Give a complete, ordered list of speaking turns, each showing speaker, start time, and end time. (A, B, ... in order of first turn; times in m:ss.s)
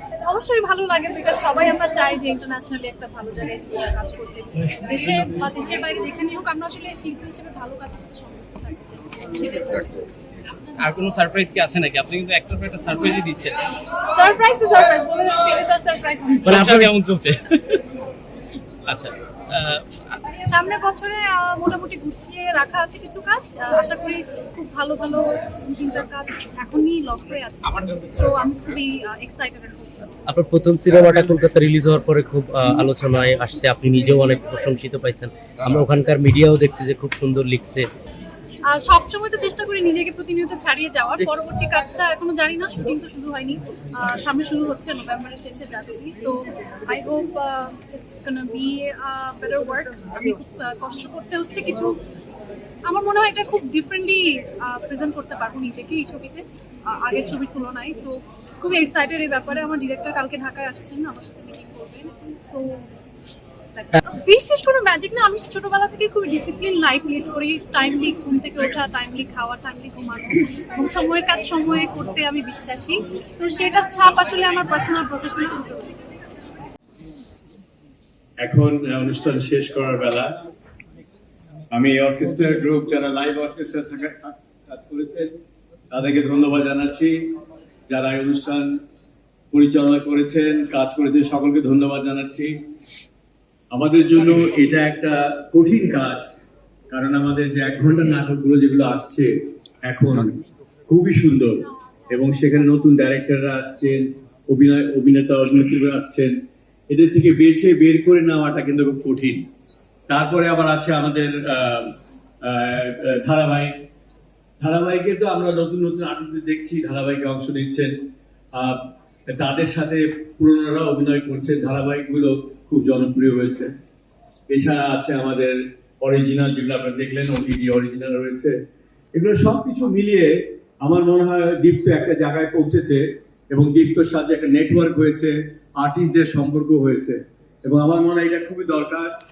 0:00.2-0:10.2 A
0:04.7-0:05.4 B
0:10.8-0:13.6 B
0:14.0-0:16.4 A
0:16.4-0:17.8 B
0:16.5-0:16.9 C
0:18.8-0:20.2 B
0:20.5-0:30.1 A
0:30.3-0:37.9 C
0:38.7-0:51.9 A
0:52.8-1:02.9 A
1:03.7-1:15.9 A
1:18.4-1:20.3 D
1:21.7-1:25.4 D
1:25.9-1:27.1 D
1:27.9-1:28.7 D
1:29.5-1:32.5 D
1:33.7-1:36.2 D
1:36.9-1:39.3 D
1:39.8-1:40.4 D
1:40.9-1:46.3 D
1:46.9-1:49.4 D
1:50.1-1:53.7 D
1:54.6-1:57.9 D
1:58.6-2:03.7 D
2:04.5-2:08.5 D
2:09.1-2:19.1 D